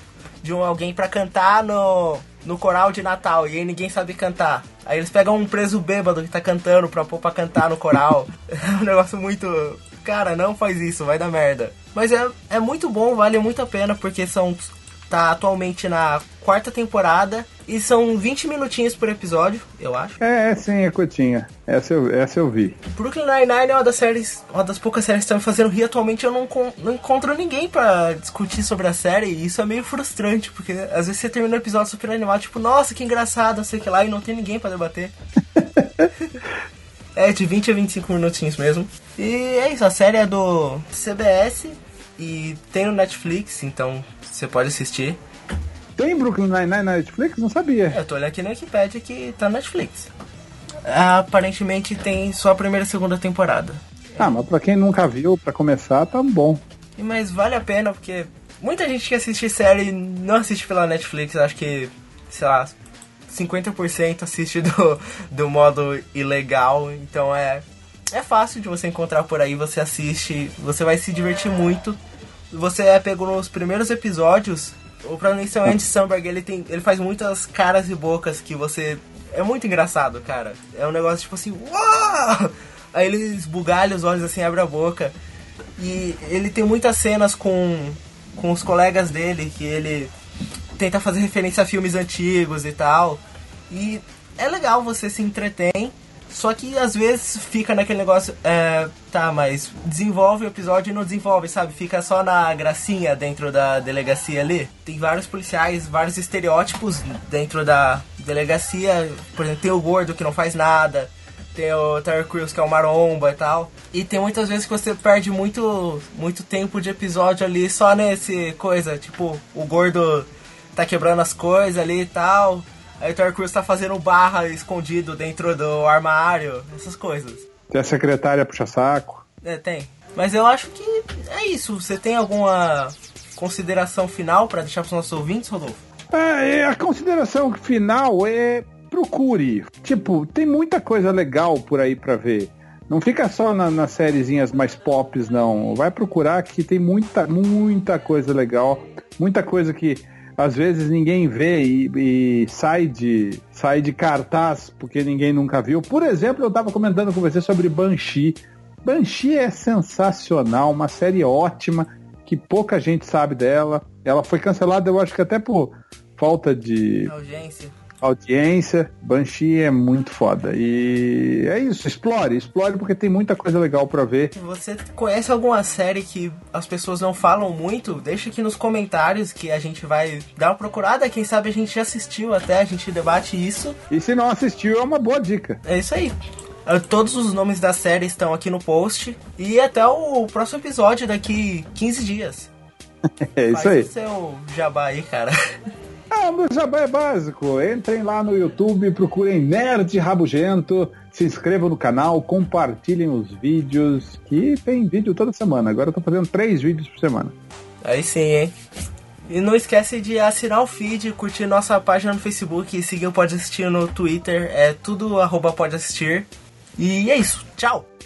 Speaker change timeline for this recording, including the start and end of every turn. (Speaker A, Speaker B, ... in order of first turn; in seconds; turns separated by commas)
Speaker A: 0.4-20.2, Speaker B: 20.2-22.8, Speaker A: 22.9-35.1, Speaker B: 35.5-36.1, Speaker A: 37.1-45.2, Speaker B: 46.0-48.0, Speaker A: 47.9-50.1, Speaker A: 50.8-54.4, Speaker B: 54.2-56.6, Speaker A: 57.0-62.8, Speaker A: 63.3-72.0, Speaker A: 72.5-85.1, Speaker A: 85.8-90.1, Speaker A: 90.8-127.4, Speaker B: 127.7-129.2, Speaker A: 129.4-135.8, Speaker B: 136.1-167.1, Speaker A: 167.1-167.8, Speaker B: 168.0-174.3, Speaker A: 174.3-183.8, Speaker B: 183.9-185.6, Speaker A: 185.6-186.1, Speaker A: 186.7-192.5, Speaker B: 193.1-193.9, Speaker A: 193.5-195.3, Speaker B: 196.1-207.3, Speaker A: 207.8-208.5, Speaker A: 209.3-217.9